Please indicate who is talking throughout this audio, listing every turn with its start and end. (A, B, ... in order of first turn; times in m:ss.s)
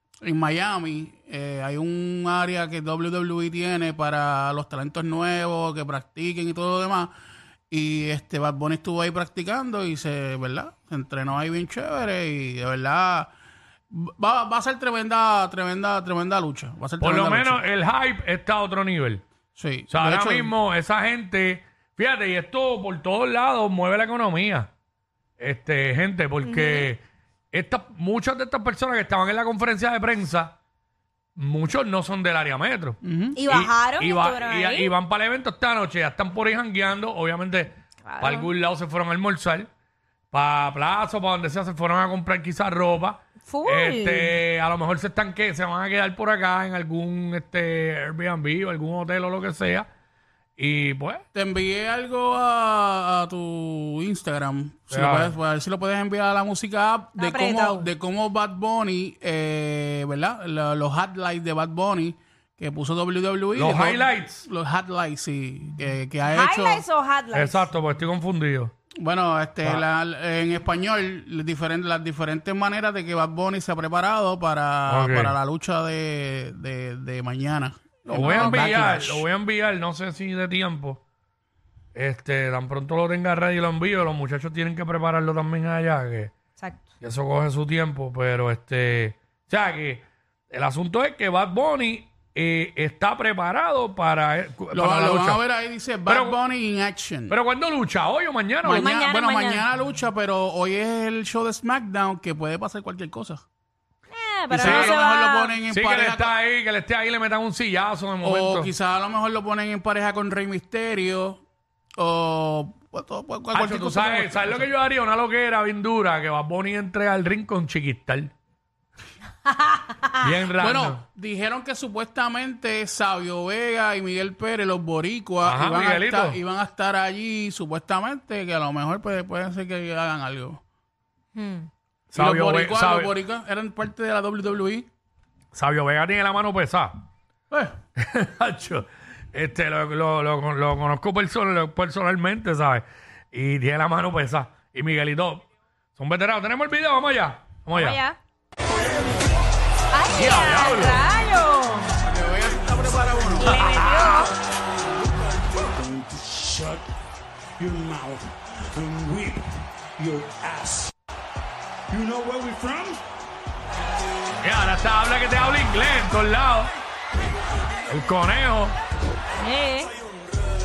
0:00.2-0:07.1 A
0:07.7-0:13.3 A
0:13.9-0:17.6 A
0:17.0-0:19.2 B
0:19.6-0:20.5 A
0:19.9-0:24.7 B
0:25.4-0:30.6 B
0:26.4-0:26.9 C
0:31.4-0:39.7 B
0:33.0-0:33.4 A
0:33.4-0:34.9 C
0:38.0-0:38.5 C
0:40.3-0:49.9 B
0:43.4-0:44.4 C
0:50.6-0:51.2 B
0:51.3-1:06.8 A
0:54.9-0:55.4 B
0:57.2-0:57.9 C
1:03.6-1:04.5 B
1:06.3-1:07.7 C
1:07.3-1:08.7 B
1:09.0-1:19.2 A
1:14.9-1:15.4 B
1:18.1-1:21.0 B
1:18.2-1:18.7 C
1:22.0-1:26.3 B
1:26.6-1:26.8 C
1:27.0-1:35.4 B
1:34.7-1:37.4 A
1:36.1-1:36.4 B
1:37.3-1:38.9 B
1:38.6-1:43.4 A
1:38.7-1:39.7 C
1:44.1-1:45.6 C
1:44.5-1:46.3 A
1:44.6-1:45.0 B
1:45.7-1:48.7 B
1:48.2-1:51.4 A
1:52.0-1:54.7 A
1:53.5-1:58.3 B
1:59.5-1:59.8 C
2:00.2-2:01.0 B
2:00.6-2:10.6 A
2:05.4-2:06.4 B
2:11.4-2:11.7 C
2:12.1-2:13.1 B
2:12.2-2:14.9 A
2:15.5-2:17.0 B
2:17.5-2:17.8 A
2:18.0-2:25.4 B
2:26.0-2:28.0 B
2:27.7-2:28.2 C
2:29.9-2:31.9 C
2:30.1-2:31.0 B
2:32.0-2:33.6 A
2:33.4-2:34.3 C
2:35.7-2:36.9 D
2:37.6-2:40.9 D
2:41.9-2:43.0 D
2:44.4-2:46.7 B
2:47.9-2:48.8 B
2:49.4-2:49.9 C